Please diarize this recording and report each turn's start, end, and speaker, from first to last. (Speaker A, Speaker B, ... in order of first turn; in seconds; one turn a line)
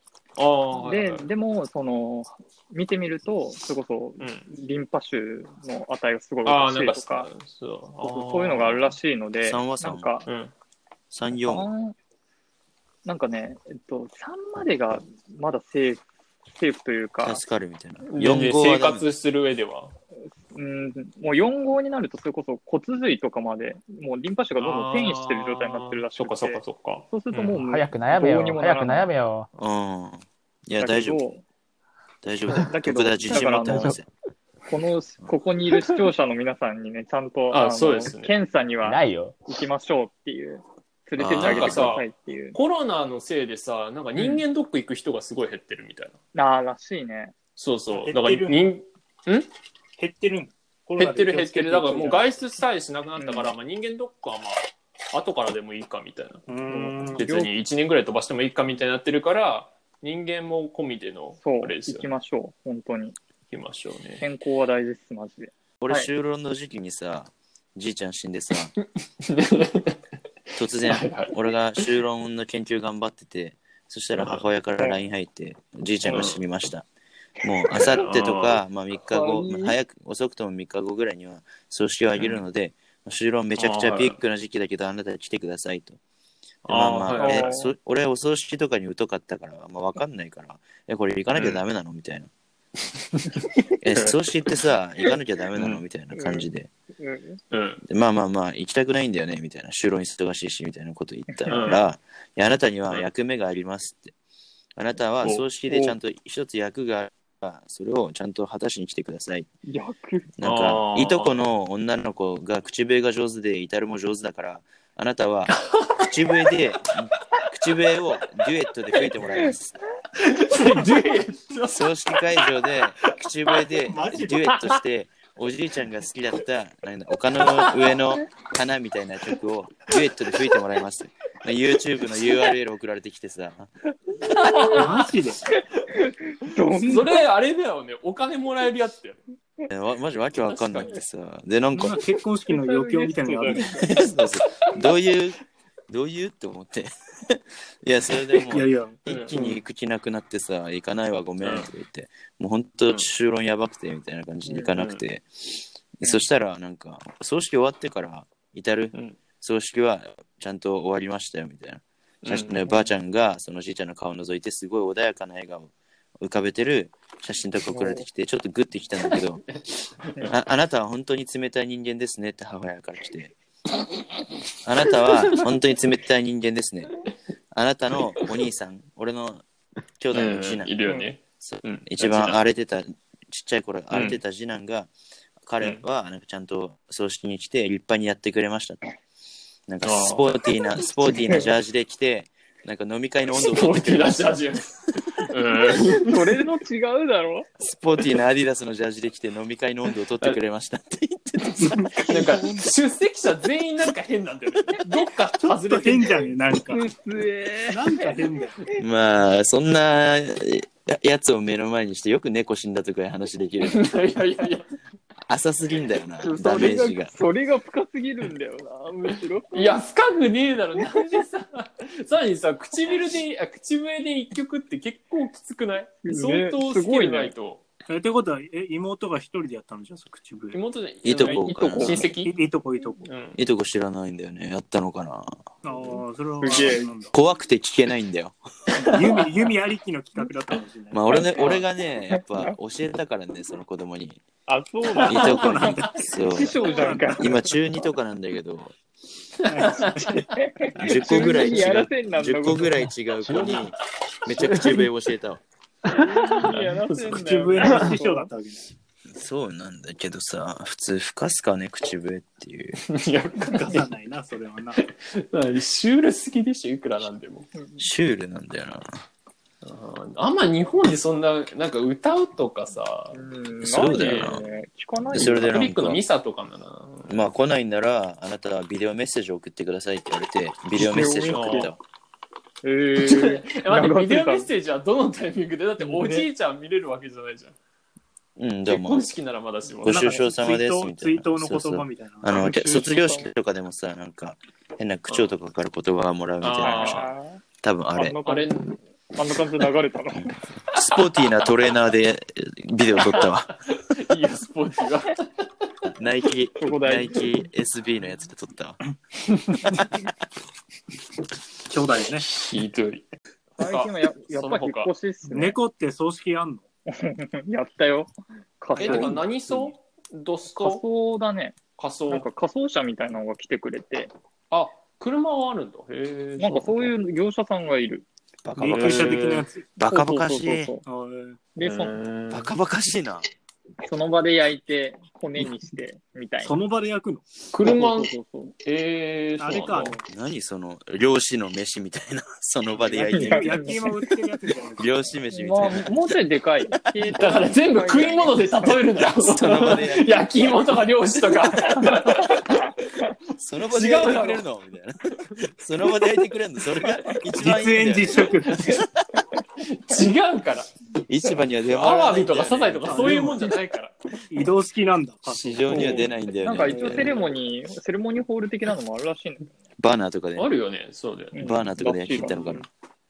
Speaker A: 0.4-1.3
Speaker B: 0.8-7.3
Speaker A: 4.2-4.5
Speaker A: 6.4-9.0
Speaker B: 8.0-10.3
Speaker C: 9.4-10.1
Speaker A: 10.2-10.5
Speaker C: 11.1-11.7
Speaker B: 11.4-11.9
Speaker B: 13.0-17.4
Speaker C: 17.2-19.0
Speaker A: 18.1-19.9
Speaker B: 20.5-29.1
Speaker A: 24.6-27.6
Speaker D: 27.6-29.5
Speaker C: 29.6-31.2
Speaker B: 30.8-31.4
Speaker C: 32.2-34.1
Speaker B: 32.6-34.0
Speaker D: 33.6-34.0
Speaker B: 34.7-42.6
Speaker A: 37.5-38.3
Speaker D: 38.8-39.4
Speaker C: 41.2-42.0
Speaker A: 41.4-46.1
Speaker B: 44.2-44.4
Speaker B: 46.3-47.3
Speaker A: 47.6-49.5
Speaker E: 47.9-48.6
Speaker E: 50.0-52.3
Speaker A: 51.0-56.5
Speaker B: 53.2-53.5
Speaker E: 56.5-57.2
Speaker B: 56.7-57.5
Speaker A: 57.1-62.1
Speaker B: 61.4-63.1
Speaker A: 63.5-64.2
Speaker B: 64.2-66.1
Speaker C: 65.8-68.7
Speaker A: 69.2-70.0
Speaker A: 70.5-71.9
Speaker C: 70.6-76.8
Speaker A: 74.2-74.5
Speaker A: 76.0-76.4
Speaker C: 77.4-86.0
Speaker A: 77.7-78.6
Speaker B: 79.0-79.8
Speaker A: 82.2-82.4
Speaker A: 83.6-84.2
Speaker A: 86.6-87.5
Speaker C: 86.7-92.3
Speaker B: 87.1-87.7
Speaker A: 91.3-91.6
Speaker A: 93.1-94.2
Speaker C: 93.8-96.7
Speaker A: 95.5-95.8
Speaker B: 96.1-97.4
Speaker A: 97.5-97.8
Speaker C: 97.8-104.1
Speaker B: 101.3-101.7
Speaker A: 101.5-101.8
Speaker C: 104.8-109.5
Speaker B: 105.7-106.0
Speaker B: 109.7-110.3
Speaker C: 110.4-119.8
Speaker A: 110.4-111.4
Speaker A: 115.6-116.1
Speaker A: 120.2-123.1
Speaker C: 121.7-133.7
Speaker E: 123.9-124.6
Speaker A: 127.4-128.0
Speaker A: 134.2-135.1
Speaker E: 134.5-135.4
Speaker B: 135.6-137.2
Speaker A: 136.7-139.2
Speaker C: 139.7-142.0
Speaker A: 140.4-141.0
Speaker E: 141.7-143.7
Speaker B: 142.5-143.9
Speaker C: 143.7-169.4
Speaker E: 148.5-149.5
Speaker A: 149.1-149.6
Speaker A: 151.4-151.7
Speaker A: 154.7-155.0
Speaker A: 158.9-159.2
Speaker A: 162.2-162.7
Speaker B: 167.7-168.1
Speaker A: 169.1-170.3
Speaker C: 170.3-173.3
Speaker C: 174.6-176.9
Speaker A: 175.0-175.4
Speaker C: 177.5-179.4
Speaker C: 180.0-180.7
Speaker A: 180.1-182.4
Speaker C: 181.4-184.9
Speaker A: 183.9-184.2
Speaker C: 185.4-188.8
Speaker C: 189.7-194.4
Speaker A: 189.8-190.3
Speaker A: 193.3-196.2
Speaker B: 195.7-197.5
Speaker C: 197.6-202.1
Speaker A: 201.9-206.3
Speaker E: 205.4-206.9
Speaker B: 206.7-208.2
Speaker E: 207.7-208.6
Speaker C: 208.8-213.9
Speaker A: 213.6-214.7
Speaker C: 215.3-217.1
Speaker B: 216.2-219.8
Speaker A: 219.5-227.6
Speaker B: 226.0-227.3
Speaker E: 227.9-230.6
Speaker A: 230.5-232.4
Speaker C: 231.0-232.1
Speaker B: 231.2-232.1
Speaker E: 232.1-233.1
Speaker A: 233.0-233.4
Speaker C: 233.3-235.4
Speaker E: 235.6-237.1
Speaker B: 236.4-236.9
Speaker C: 237.1-238.3
Speaker A: 238.8-239.1
Speaker E: 238.8-241.4
Speaker C: 240.9-244.2
Speaker B: 241.1-241.6
Speaker B: 242.1-242.5
Speaker B: 244.5-247.5
Speaker E: 245.0-247.3
Speaker C: 245.1-246.6
Speaker C: 247.2-248.7
Speaker A: 249.4-250.3
Speaker E: 249.5-250.3
Speaker B: 250.3-252.8
Speaker C: 250.8-255.4
Speaker D: 253.2-253.7
Speaker D: 254.3-254.8
Speaker B: 255.8-258.3
Speaker A: 256.4-257.9
Speaker E: 257.0-258.7
Speaker C: 259.1-262.8
Speaker A: 262.9-263.9
Speaker E: 263.4-264.8
Speaker A: 264.8-267.5
Speaker B: 267.5-267.8
Speaker C: 267.8-268.9
Speaker A: 269.6-273.2
Speaker B: 273.1-275.7
Speaker C: 273.6-274.4
Speaker A: 273.9-274.4
Speaker C: 275.1-276.0
Speaker A: 275.1-277.2
Speaker C: 277.1-281.8
Speaker B: 280.7-281.7
Speaker A: 281.3-281.7
Speaker B: 282.6-284.5
Speaker A: 283.0-287.5
Speaker B: 285.8-286.3
Speaker C: 288.4-289.1
Speaker A: 288.7-290.2
Speaker C: 289.8-297.1
Speaker E: 289.8-292.9
Speaker B: 292.8-293.2
Speaker A: 296.4-297.1
Speaker B: 296.6-297.4
Speaker C: 297.6-298.1
Speaker B: 297.9-298.5
Speaker A: 298.2-298.8
Speaker B: 299.1-300.3
Speaker C: 300.1-303.5
Speaker A: 300.7-301.0
Speaker A: 303.0-305.3
Speaker C: 305.9-308.8
Speaker B: 306.6-307.3
Speaker E: 311.7-312.3
Speaker A: 312.3-313.1
Speaker B: 313.6-315.6
Speaker A: 313.6-314.9
Speaker E: 315.3-316.6
Speaker B: 316.9-319.2
Speaker A: 318.8-320.8
Speaker E: 318.8-319.1
Speaker B: 320.6-321.6
Speaker A: 321.8-322.3
Speaker B: 322.1-324.1
Speaker A: 324.5-326.9
Speaker B: 326.4-328.1
Speaker C: 328.4-330.7
Speaker E: 328.6-329.6
Speaker A: 328.7-329.5
Speaker B: 329.8-330.8
Speaker E: 330.9-331.4
Speaker B: 331.5-331.9
Speaker A: 331.6-332.5
Speaker C: 332.3-333.2
Speaker B: 333.8-336.6
Speaker E: 336.4-337.3
Speaker A: 337.5-338.1
Speaker B: 337.6-338.5
Speaker A: 338.6-340.0
Speaker E: 339.4-340.0
Speaker C: 340.1-343.7
Speaker E: 342.8-344.9
Speaker B: 343.1-344.0
Speaker C: 344.8-346.2
Speaker B: 345.3-348.9
Speaker A: 347.1-352.6
Speaker C: 349.0-350.2
Speaker C: 353.4-358.9
Speaker A: 353.7-354.4
Speaker E: 357.4-358.7
Speaker A: 359.6-360.7
Speaker C: 361.1-363.2
Speaker A: 361.7-363.9
Speaker E: 362.9-363.5
Speaker E: 364.3-366.1
Speaker C: 365.3-367.1
Speaker B: 365.7-369.5
Speaker E: 366.6-367.3
Speaker C: 369.8-370.5
Speaker A: 370.4-371.3
Speaker B: 371.3-372.6
Speaker C: 371.4-372.6